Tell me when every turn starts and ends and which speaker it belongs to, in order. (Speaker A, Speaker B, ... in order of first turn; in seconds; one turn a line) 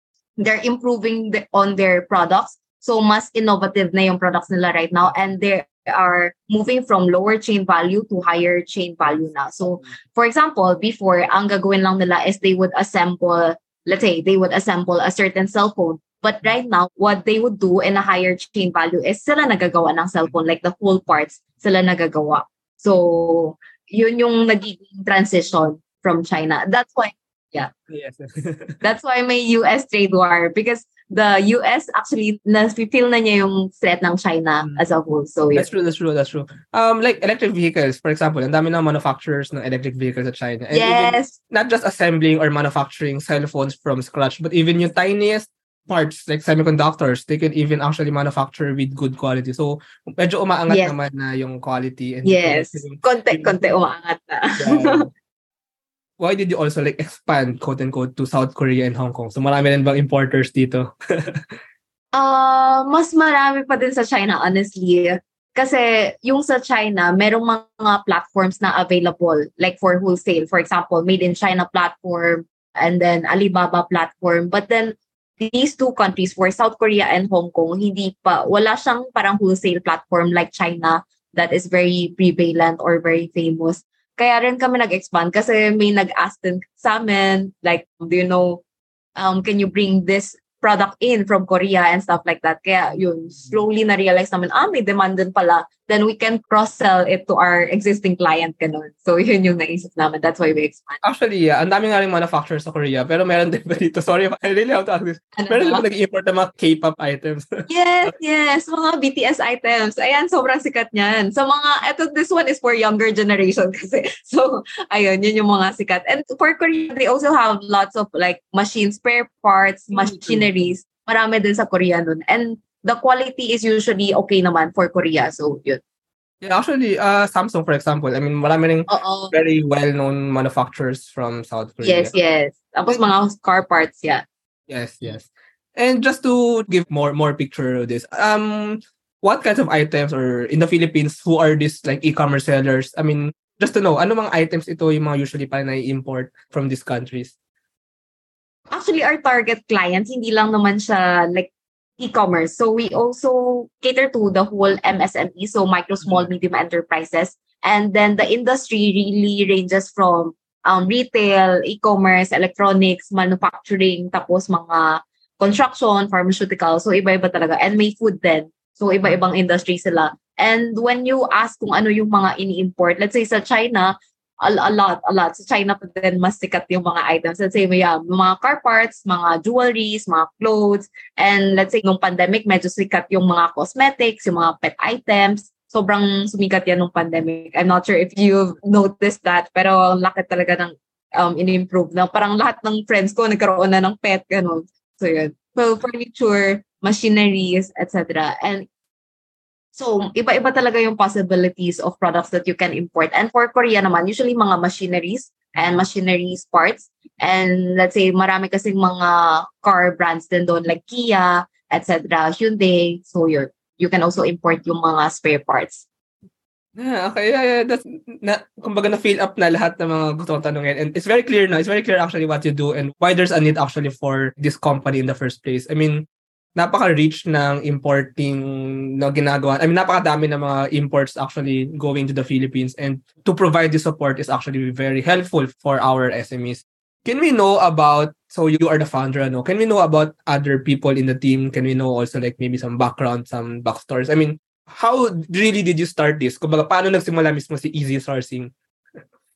Speaker A: 0.4-27.7
Speaker B: 27.9-28.8
Speaker A: 28.8-35.7
Speaker B: 35.5-53.5
Speaker A: 40.7-41.3
Speaker A: 50.7-51.0
Speaker A: 52.2-55.1
Speaker B: 54.6-55.1
Speaker B: 56.2-61.4
Speaker A: 62.1-88.6
Speaker A: 89.2-101.0
Speaker B: 101.0-107.6
Speaker A: 105.3-105.8
Speaker A: 107.7-125.8
Speaker B: 120.0-120.5
Speaker B: 126.4-132.1
Speaker A: 128.9-129.3
Speaker A: 131.8-134.2
Speaker B: 134.7-147.3
Speaker A: 148.7-198.7
Speaker A: 199.7-215.8
Speaker B: 216.8-248.5